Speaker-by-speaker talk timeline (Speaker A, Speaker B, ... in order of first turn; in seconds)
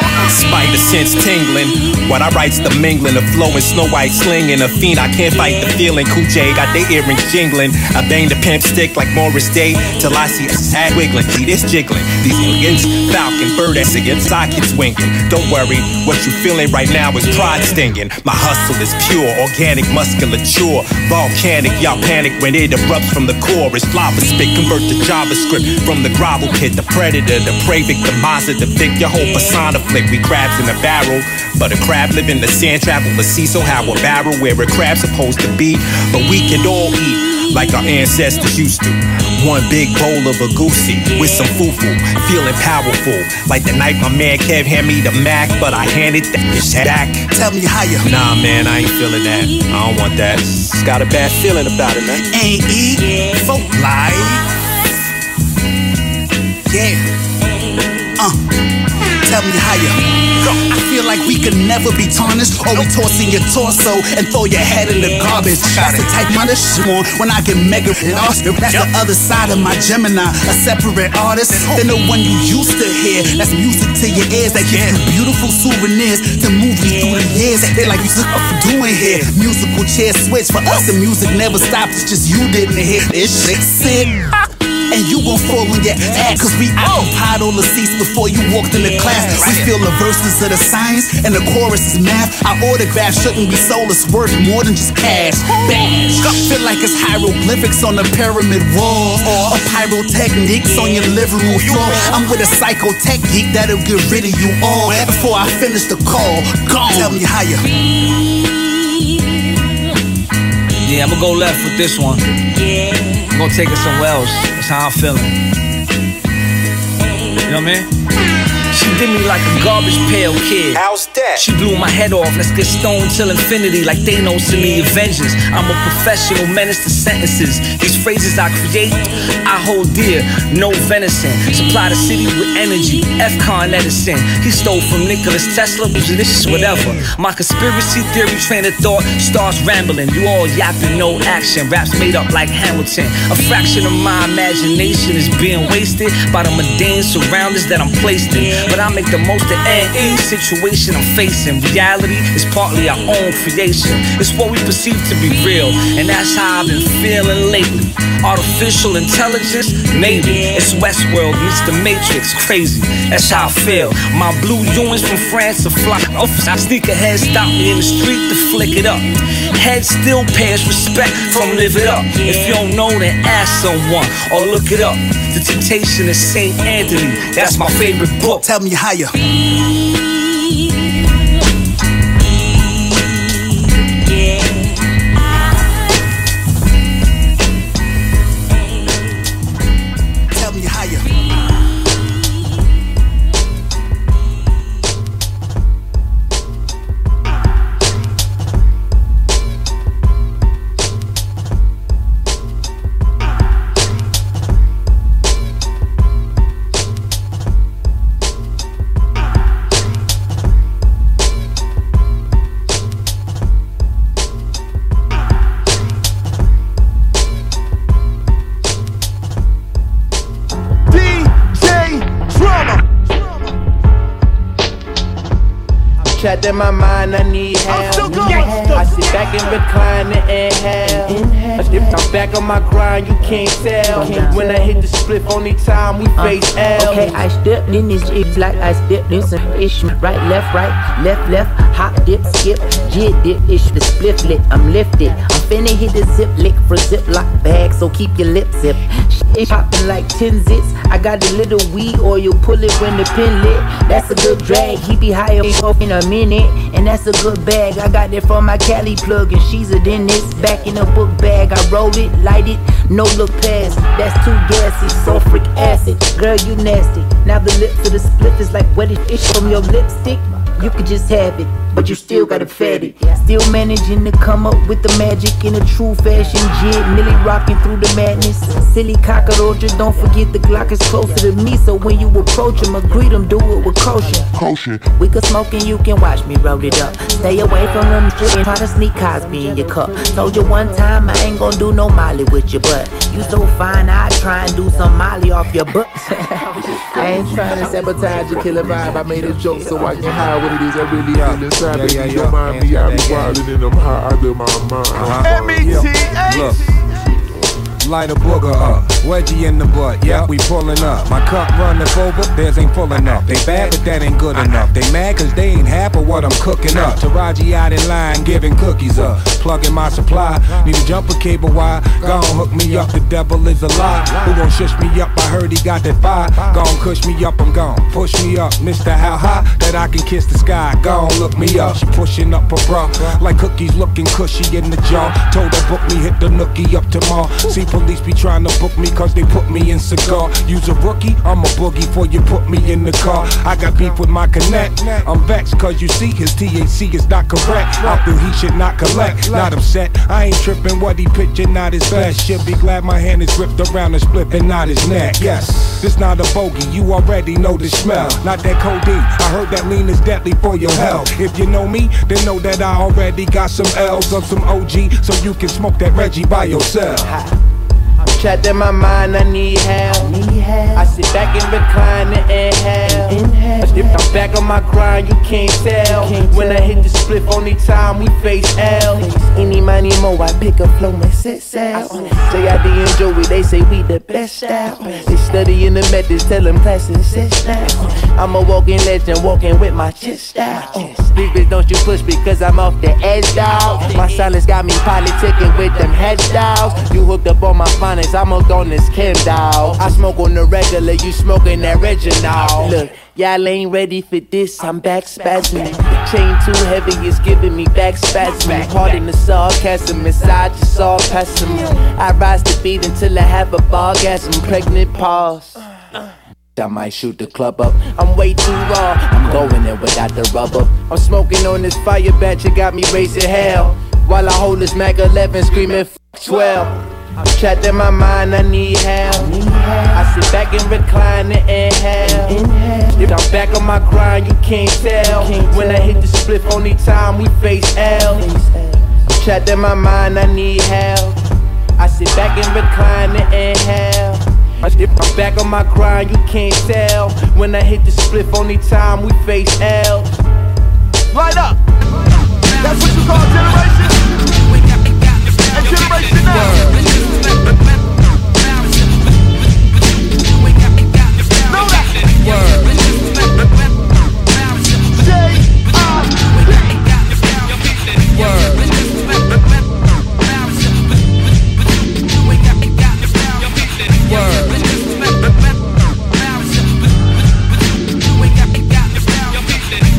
Speaker A: 0.2-47.4, 48.0-52.3, 53.5-54.3, 120.7-121.4, 178.3-179.1
Speaker B: 47.4-47.9, 52.4-52.8, 59.3-59.8, 60.6-84.1, 84.9-107.5
Speaker C: 110.8-112.2, 113.3-115.4, 117.5-117.9, 118.7-178.5
Speaker D: 226.1-237.2, 367.0-367.4, 368.0-370.1, 370.7-415.6, 416.6-429.3, 429.9-432.4, 433.0-438.3, 439.1-441.2, 441.8-450.1
Speaker E: 234.0-234.7, 236.2-284.3, 285.0-298.5
Speaker F: 284.3-284.8, 297.1-297.6, 300.6-305.8
Speaker G: 298.2-303.3, 305.2-306.5, 451.1-451.6, 452.6-453.9, 455.5-456.6, 461.5-461.9, 464.9-466.1
Speaker H: 301.2-302.5, 305.0-306.6, 307.8-367.1